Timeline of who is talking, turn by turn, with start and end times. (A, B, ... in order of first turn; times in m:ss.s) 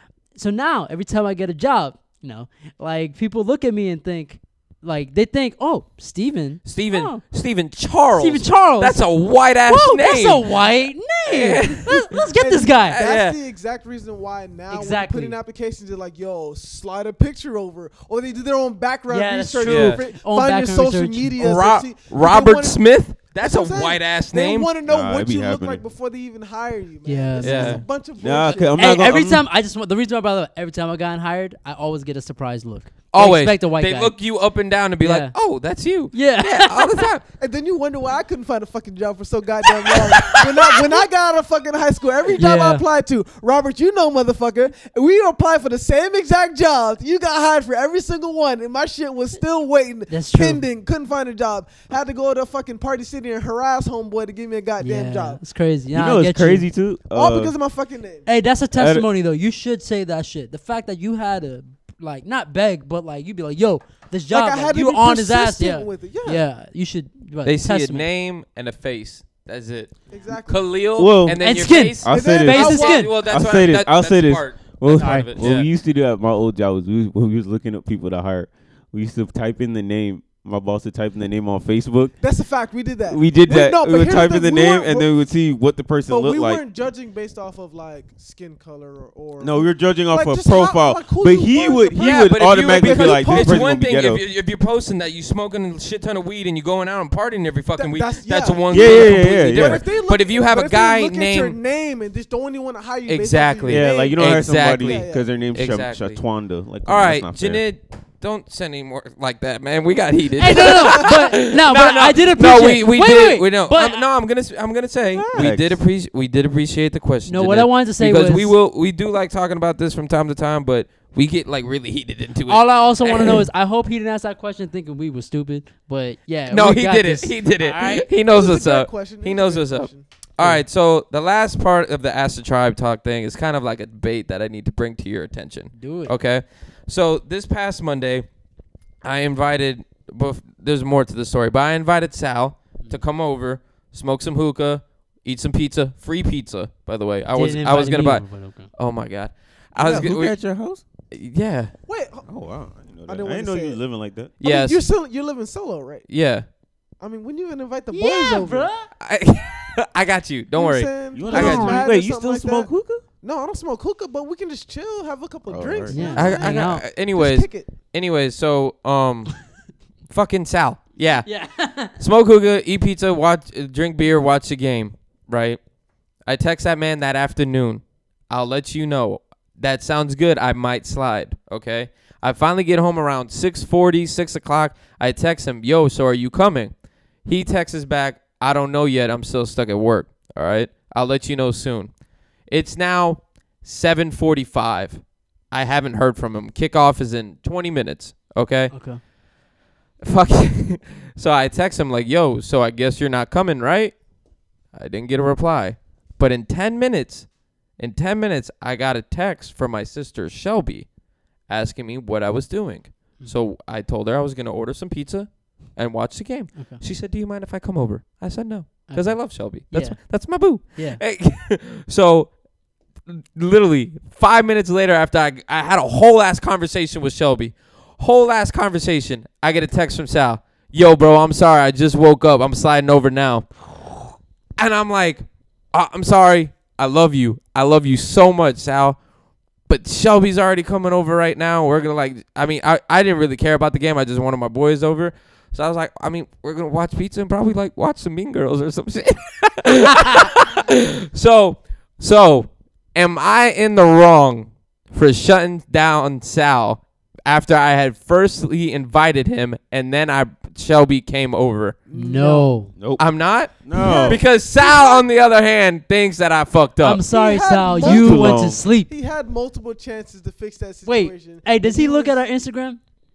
0:00.3-0:07.2 A
0:06.6-0:10.5 B
0:08.2-0:09.0 A
0:09.7-0:13.0 A
0:11.3-0:12.2 B
0:12.4-0:22.8 C
0:12.9-0:13.4 B
0:14.7-0:15.4 A
0:19.1-0:21.4 A
0:19.6-0:20.0 B
0:21.4-0:24.7 B
0:23.4-0:28.9 C
0:24.8-0:25.8 D
0:27.0-0:27.8 A
0:27.4-0:27.8 B
0:28.2-0:29.4 D
0:28.8-0:34.1 A
0:33.1-0:37.2 B
0:35.0-0:35.3 A
0:36.1-0:37.1 A
0:37.4-0:55.4 C
0:42.3-0:42.8 A
0:50.1-0:50.6 A
0:54.8-0:56.7 A
0:55.9-0:57.5 D
0:57.1-0:58.3 C
0:58.2-1:08.0 A
0:58.8-0:59.1 D
1:04.3-1:06.4 C
1:07.4-1:15.7 B
1:10.1-1:10.7 C
1:11.0-1:22.2 D
1:11.4-1:13.1 A
1:12.1-1:13.0 C
1:15.0-1:15.3 A
1:22.2-1:25.1 C
1:23.0-1:26.6 D
1:26.1-1:33.7 C
1:29.4-1:34.2 D
1:31.9-1:41.6 B
1:37.8-1:45.3 C
1:38.7-1:39.8 D
1:43.1-1:46.2 B
1:43.6-1:47.6 D
1:46.8-2:03.5 B
1:50.4-1:54.0 A
1:55.1-1:55.5 C
1:55.3-1:55.8 D
1:57.2-1:58.5 A
2:02.5-2:08.1 A
2:06.5-2:18.2 B
2:08.3-2:10.0 C
2:15.7-2:16.1 A
2:19.0-2:30.4 B
2:27.3-2:28.7 A
2:29.8-2:30.8 D
2:31.1-2:31.7 B
2:31.9-2:32.3 C
2:32.3-2:34.3 D
2:33.1-2:33.8 C
2:34.4-2:34.8 B
2:34.4-2:36.0 C
2:36.1-2:36.4 B
2:37.0-2:38.7 C
2:37.9-2:38.9 A
2:39.0-2:41.8 B
2:40.5-2:42.7 C
2:41.1-2:43.0 D
2:41.3-2:41.8 A
2:43.2-2:47.7 C
2:45.5-2:46.4 D
2:45.9-2:46.8 A
2:46.1-2:49.4 B
2:50.1-2:51.3 B
2:51.2-2:52.0 A
2:52.0-2:55.6 B
2:56.2-3:06.7 B
3:07.2-3:11.9 B
3:12.5-3:18.7 B
3:18.7-3:19.0 A
3:20.0-3:24.0 B
3:24.7-3:30.9 B
3:31.5-3:42.4 B
3:36.5-3:36.8 A
3:38.9-3:41.0 A
3:43.0-3:59.0 B
3:59.6-4:21.8 B
4:21.8-4:22.5 C
4:21.9-4:22.7 A
4:22.8-4:23.0 D
4:23.0-4:27.0 B
4:23.6-4:24.2 D
4:23.7-4:25.0 C
4:26.8-4:28.9 A
4:27.1-4:32.2 C
4:27.8-4:28.6 D
4:30.8-4:32.8 A